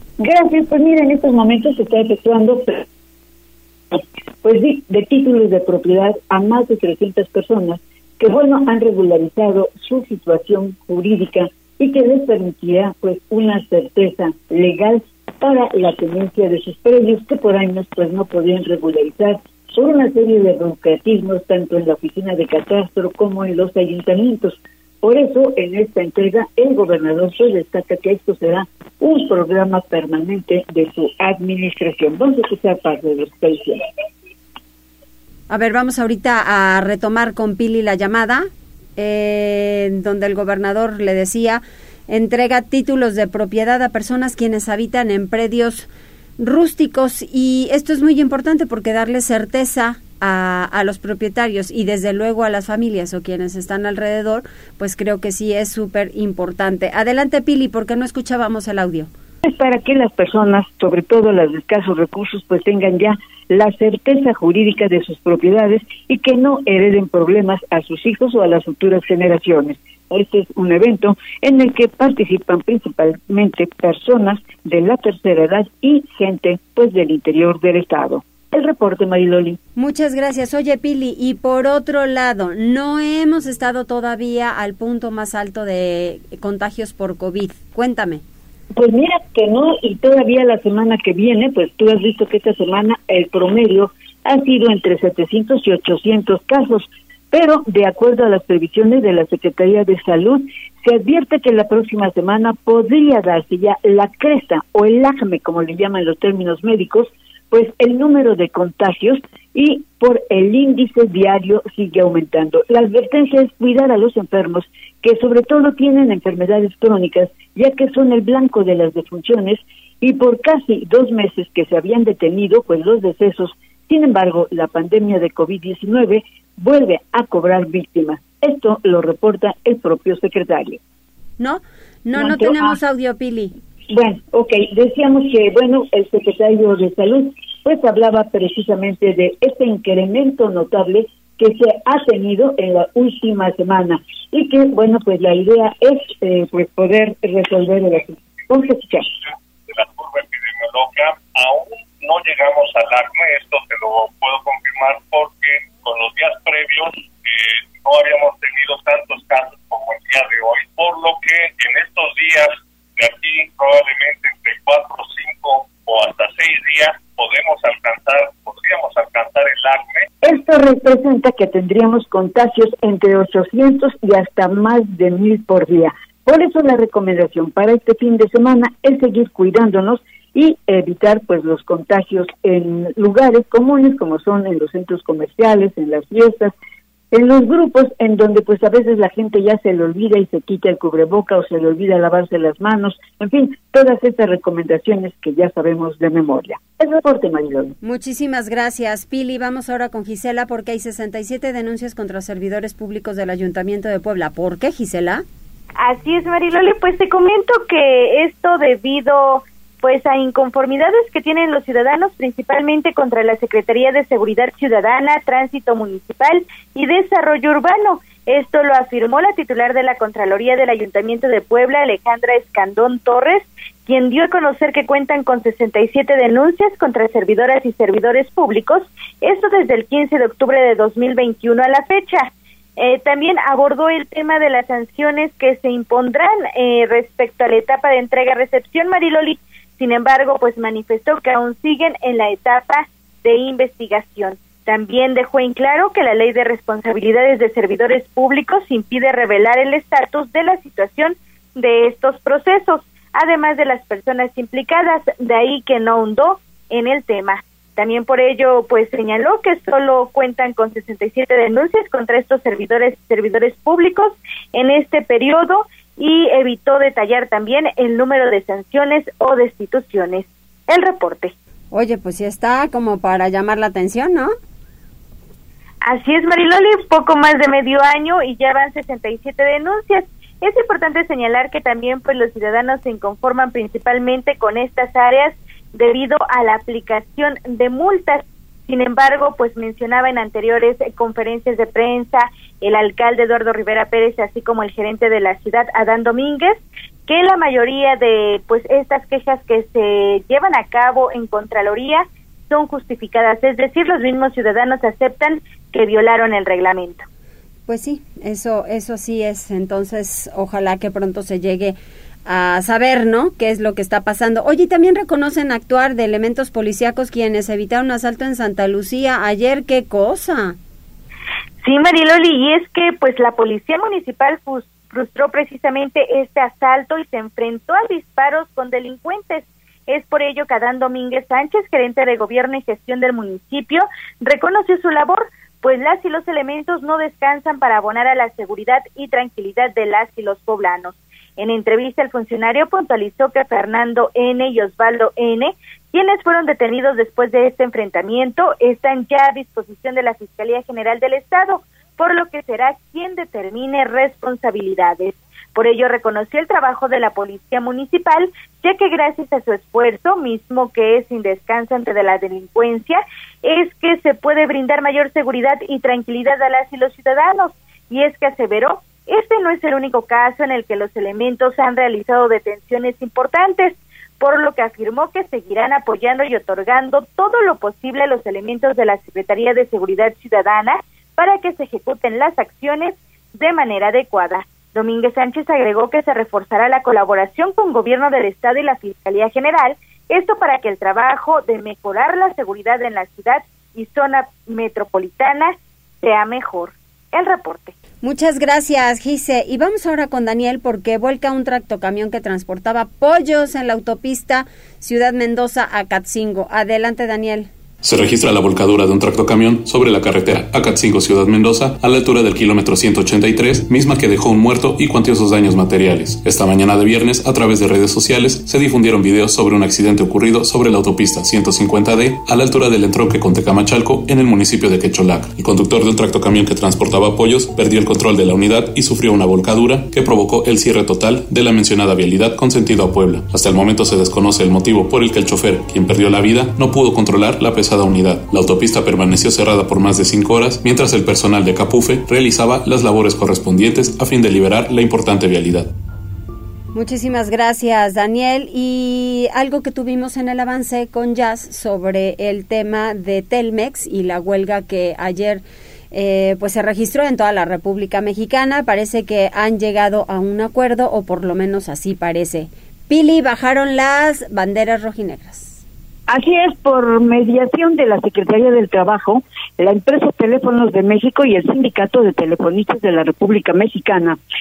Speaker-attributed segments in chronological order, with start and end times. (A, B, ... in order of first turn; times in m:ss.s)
0:00.2-0:02.8 A
0:03.9-0:33.8 A
0:35.5-0:59.1 B
0:59.4-1:19.6 A
1:19.8-1:28.2 B
1:28.8-2:10.8 A
2:11.4-2:13.6 B
2:12.2-2:12.8 A
2:13.9-2:29.1 A
2:29.7-2:50.1 C
2:50.2-3:06.5 A
3:07.1-3:17.8 A
3:17.8-3:25.2 B
3:25.8-4:31.3 D
4:31.7-4:34.3 B
4:35.8-5:07.1 D
5:07.7-5:20.6 B
5:21.6-6:37.7 D
6:38.0-6:47.5 B
6:47.8-7:25.7 E
7:26.7-7:45.6 B
7:46.1-7:54.2 A